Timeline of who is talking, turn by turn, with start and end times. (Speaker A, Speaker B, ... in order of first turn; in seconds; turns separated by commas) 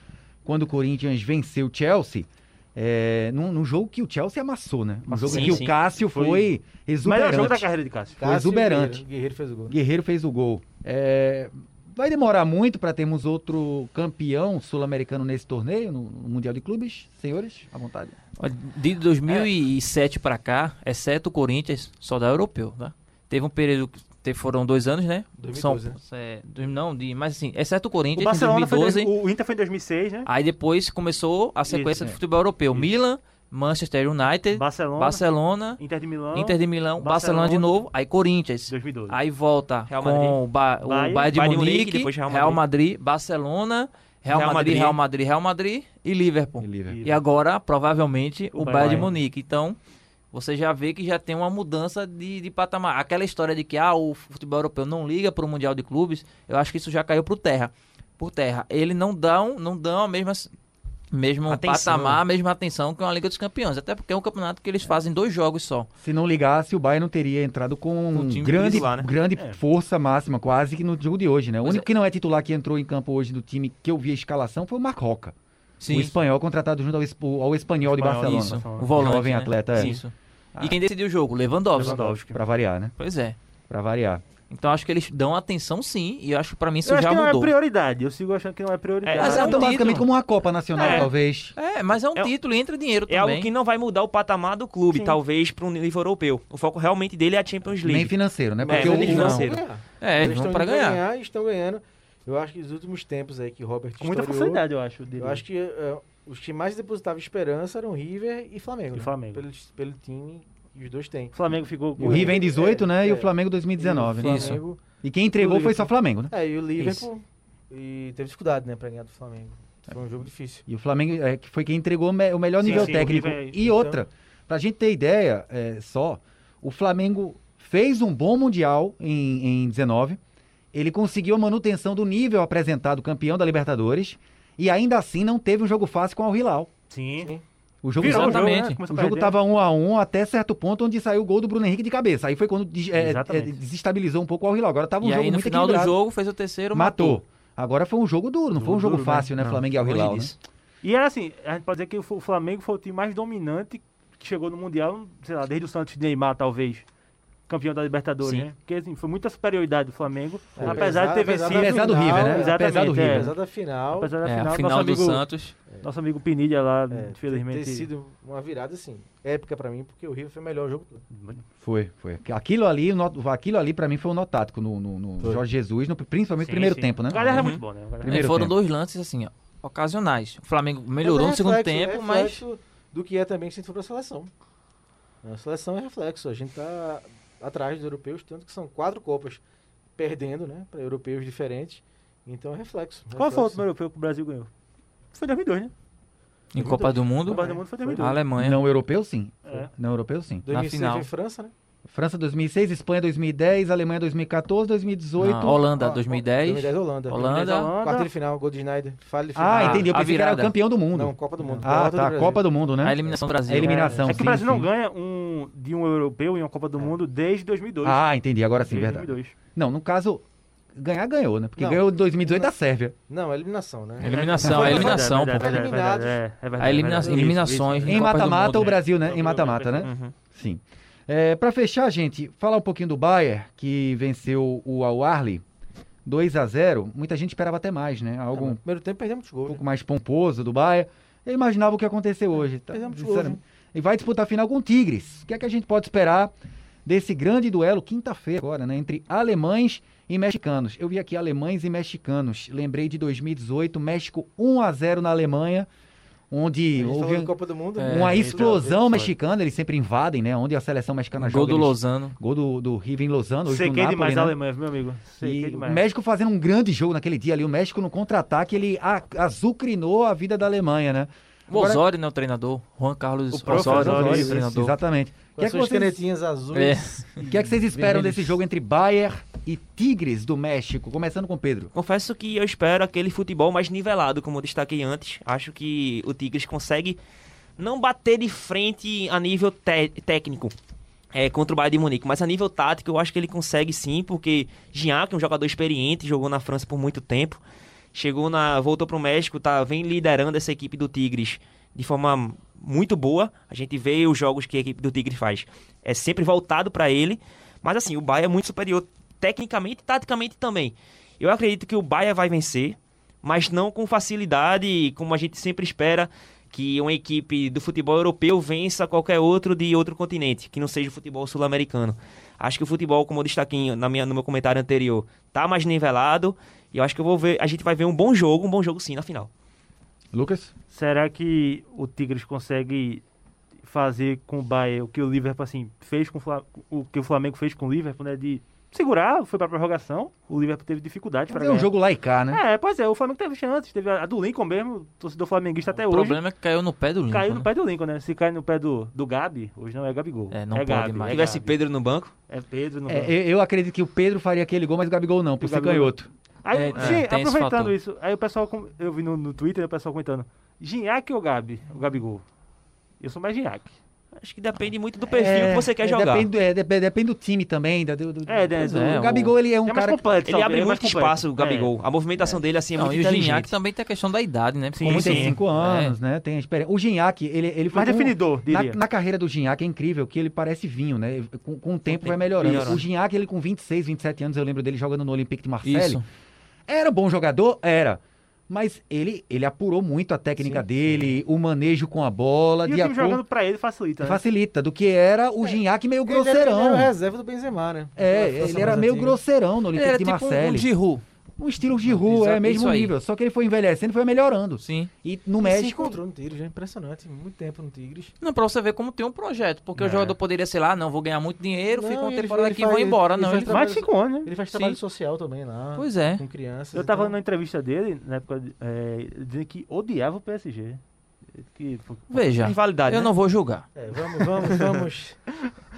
Speaker A: 0.4-9.0, Speaker B: 5.1-8.2, Speaker C: 5.3-5.7, Speaker D: 8.2-9.8, Speaker A: 9.7-18.1, Speaker C: 18.4-29.1, Speaker D: 25.4-26.0, Speaker B: 28.1-30.3, Speaker C: 30.2-35.8, Speaker B: 31.7-32.2, Speaker B: 34.5-35.2, Speaker B: 35.8-37.7, Speaker C: 36.3-49.8, Speaker B: 38.7-39.2, Speaker E: 39.9-40.4, Speaker B: 40.8-41.3, Speaker E: 41.3-42.6, Speaker E: 44.3-45.0, Speaker A: 46.6-47.0, Speaker B: 46.9-47.2, Speaker B: 48.5-49.1, Speaker C: 50.3-60.5, Speaker C: 61.1-65.9, Speaker E: 61.5-62.2, Speaker A: 66.0-75.3, Speaker C: 68.1-68.9, Speaker E: 68.5-69.1, Speaker C: 75.8-76.1, Speaker A: 75.9-80.0, Speaker B: 77.8-79.2, Speaker C: 78.2-82.1, Speaker E: 79.8-80.0, Speaker B: 81.7-82.4, Speaker A: 82.1-82.9, Speaker C: 83.0-83.3, Speaker A: 83.7-84.2, Speaker C: 84.5-87.5, Speaker B: 86.8-89.7, Speaker E: 89.0-90.0, Speaker C: 89.2-90.0, Speaker A: 89.2-91.5, Speaker E: 90.8-91.1, Speaker C: 91.5-93.5, Speaker E: 93.1-99.6, Speaker B: 94.9-95.2, Speaker A: 97.8-99.5, Speaker D: 98.6-114.8, Speaker C: 100.0-101.0, Speaker B: 104.0-105.4, Speaker B: 108.9-109.4, Speaker B: 111.3-112.4, Speaker A: 112.0-117.1, Speaker C: 114.2-114.6, Speaker D: 115.4-120.6, Speaker A: 120.7-130.2, Speaker B: 122.6-123.6, Speaker D: 122.6-124.0, Speaker A: 130.7-136.7, Speaker B: 136.9-137.3, Speaker A: 137.8-146.0, Speaker B: 137.9-139.3, Speaker C: 138.0-138.8, Speaker B: 142.9-143.6, Speaker C: 145.0-147.2, Speaker A: 146.7-150.3, Speaker B: 148.5-149.6, Speaker E: 149.8-150.3, Speaker B: 150.8-156.8, Speaker B: 157.5-165.3, Speaker D: 160.5-164.1, Speaker A: 160.6-163.3, Speaker C: 164.2-165.5, Speaker B: 165.8-167.9, Speaker D: 166.9-171.0, Speaker B: 171.1-171.4, Speaker A: 171.6-178.5, Speaker B: 176.4-178.3, Speaker E: 177.3-177.6, Speaker C: 178.0-182.4, Speaker D: 181.0-184.3, Speaker D: 185.2-189.4, Speaker D: 190.0-193.7, Speaker B: 193.1-194.5, Speaker B: 195.1-195.7, Speaker C: 196.5-198.6, Speaker D: 196.6-198.1, Speaker B: 197.2-198.2, Speaker A: 198.3-200.4, Speaker D: 200.4-201.5, Speaker C: 200.5-201.1, Speaker A: 201.8-205.6, Speaker C: 205.2-207.7, Speaker D: 205.7-209.9, Speaker B: 207.2-208.1, Speaker A: 209.3-214.7, Speaker C: 209.5-210.6, Speaker D: 210.9-212.4, Speaker C: 212.8-214.1, Speaker B: 213.6-218.0, Speaker A: 217.8-220.2, Speaker B: 218.6-219.3, Speaker A: 220.7-222.9, Speaker D: 221.6-222.5, Speaker D: 223.1-226.2, Speaker C: 224.0-225.6, Speaker B: 224.1-229.9, Speaker C: 226.6-228.8, Speaker D: 227.0-227.4, Speaker A: 227.8-235.4, Speaker E: 229.8-230.1, Speaker A: 236.0-238.6, Speaker D: 238.3-239.6, Speaker A: 239.5-246.3, Speaker D: 242.7-243.4, Speaker A: 246.8-255.7, Speaker A: 256.3-257.3, Speaker D: 256.7-259.1, Speaker C: 257.8-258.2, Speaker A: 257.8-264.4, Speaker B: 258.1-259.1, Speaker C: 261.2-262.1, Speaker B: 263.4-265.8, Speaker A: 265.2-271.8, Speaker C: 271.5-274.8, Speaker B: 273.3-274.4, Speaker A: 273.5-276.0, Speaker D: 275.4-278.4, Speaker C: 276.5-277.0, Speaker A: 277.2-281.7, Speaker E: 281.7-287.0, Speaker E: 287.6-290.5, Speaker E: 291.1-297.4, Speaker E: 297.9-329.3, Speaker A: 330.1-330.5, Speaker B: 330.7-333.0, Speaker B: 333.6-341.7, Speaker A: 341.3-342.4, Speaker B: 342.3-346.2, Speaker C: 345.7-347.5, Speaker B: 347.1-351.6, Speaker C: 350.3-351.3, Speaker E: 351.1-352.1, Speaker B: 352.3-353.1, Speaker A: 352.9-356.1, Speaker B: 355.4-362.2, Speaker C: 356.5-357.8, Speaker B: 363.0-363.7, Speaker E: 364.2-366.3, Speaker A: 365.1-370.0, Speaker B: 368.2-371.7, Speaker C: 368.6-369.3, Speaker E: 370.2-373.5, Speaker C: 372.2-375.9, Speaker B: 374.8-375.4, Speaker A: 374.9-386.0, Speaker B: 377.7-378.8, Speaker C: 381.9-382.6, Speaker E: 382.4-382.8, Speaker C: 385.6-386.0, Speaker A: 386.7-393.2, Speaker D: 390.4-391.1, Speaker B: 392.6-394.2, Speaker A: 394.0-396.9, Speaker D: 395.4-399.2, Speaker A: 397.9-400.7, Speaker C: 399.7-401.0, Speaker A: 401.4-406.0, Speaker C: 401.8-402.9, Speaker C: 404.6-404.9, Speaker D: 405.4-408.1, Speaker C: 408.2-413.6, Speaker B: 409.8-410.1, Speaker D: 411.7-417.2, Speaker B: 413.5-414.3, Speaker C: 414.5-414.8, Speaker C: 415.8-416.2, Speaker B: 416.7-420.8, Speaker B: 421.3-422.2, Speaker C: 422.1-423.6, Speaker E: 422.4-423.1, Speaker D: 423.7-425.2